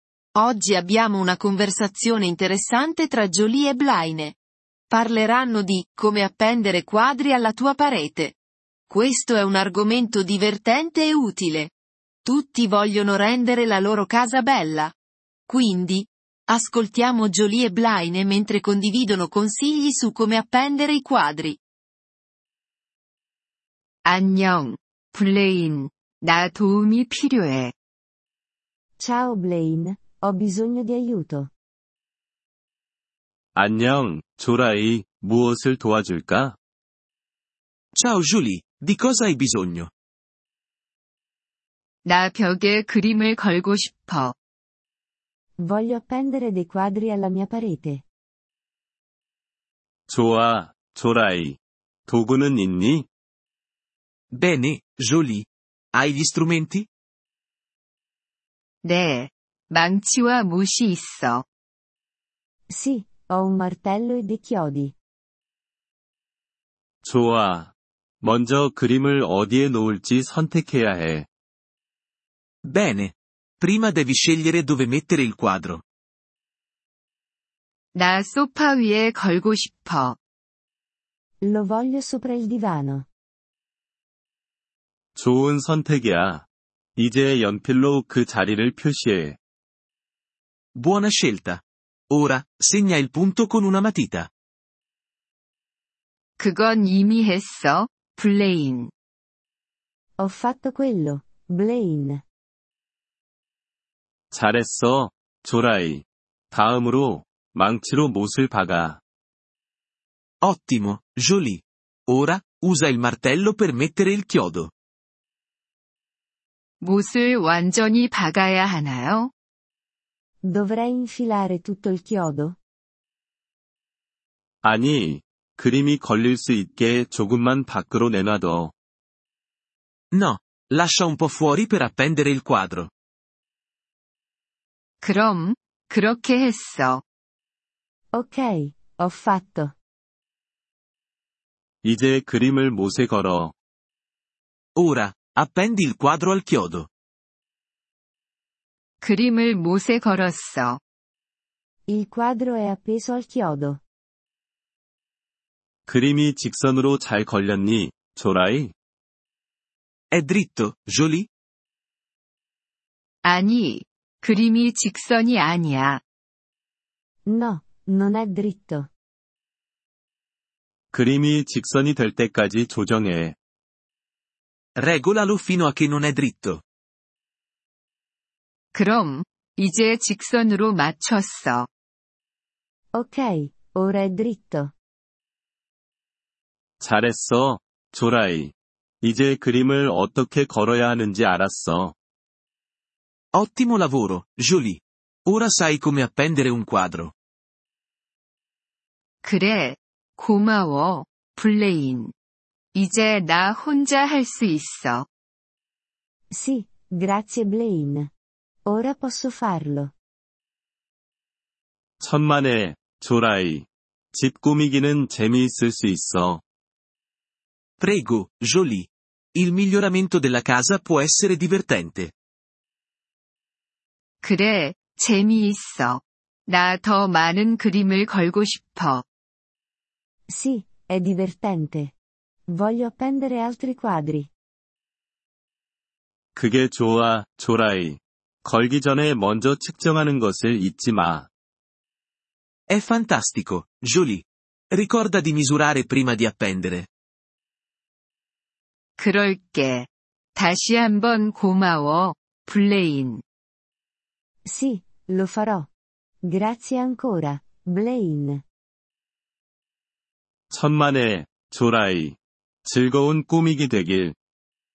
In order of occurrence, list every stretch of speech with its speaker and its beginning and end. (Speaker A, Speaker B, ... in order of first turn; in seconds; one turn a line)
Speaker A: 0.4-4.4
Speaker A: 4.9-8.4
Speaker A: 8.9-11.7
Speaker A: 12.2-14.9
Speaker A: 15.5-21.6
Speaker B: 24.1-27.7
Speaker C: 29.0-31.5
Speaker D: 33.5-36.6
Speaker E: 38.0-39.9
Speaker B: 42.0-44.3
Speaker C: 45.6-48.0
Speaker D: 50.1-53.1
Speaker E: 54.3-56.9
Speaker B: 58.8-61.5
Speaker C: 62.7-65.0
Speaker D: 67.0-71.3
Speaker E: 72.6-75.8
Speaker B: 77.9-80.2
Speaker C: 81.4-83.1
Speaker D: 85.2-89.4
Speaker E: 90.8-94.3
Speaker B: 96.4-98.9
Speaker C: 100.2-102.2
Speaker D: 104.3-109.0
Speaker E: 110.4-114.7
Speaker B: 116.8-119.3
Speaker C: 120.4-122.6
Speaker D: 124.6-128.7
Speaker E: 130.1-132.9
Speaker B: 135.0-137.0
Speaker C: 138.1-139.8
Speaker D: 141.8-143.5
Speaker E: 144.8-146.9
Speaker B: 149.0-150.8
Speaker C: 151.9-153.8
Speaker D: 155.9-158.7
Speaker E: 160.1-161.3
Speaker B: 163.2-166.0
Speaker C: 167.3-168.9
Speaker D: 170.9-173.4
Speaker E: 174.8-176.6
Speaker B: 178.7-181.7
Speaker C: 182.9-184.7
Speaker D: 186.8-191.9
Speaker E: 193.3-197.1
Speaker B: 199.2-202.1
Speaker B: 202.7-205.1
Speaker C: 206.3-208.1
Speaker C: 208.7-209.9
Speaker D: 212.0-216.4
Speaker E: 217.8-222.1
Speaker B: 224.2-229.0
Speaker C: 230.3-231.9
Speaker C: 232.5-234.3
Speaker D: 236.3-241.3
Speaker E: 242.7-246.9
Speaker B: 249.0-253.2
Speaker C: 254.4-255.7
Speaker C: 256.2-258.4
Speaker D: 260.5-264.1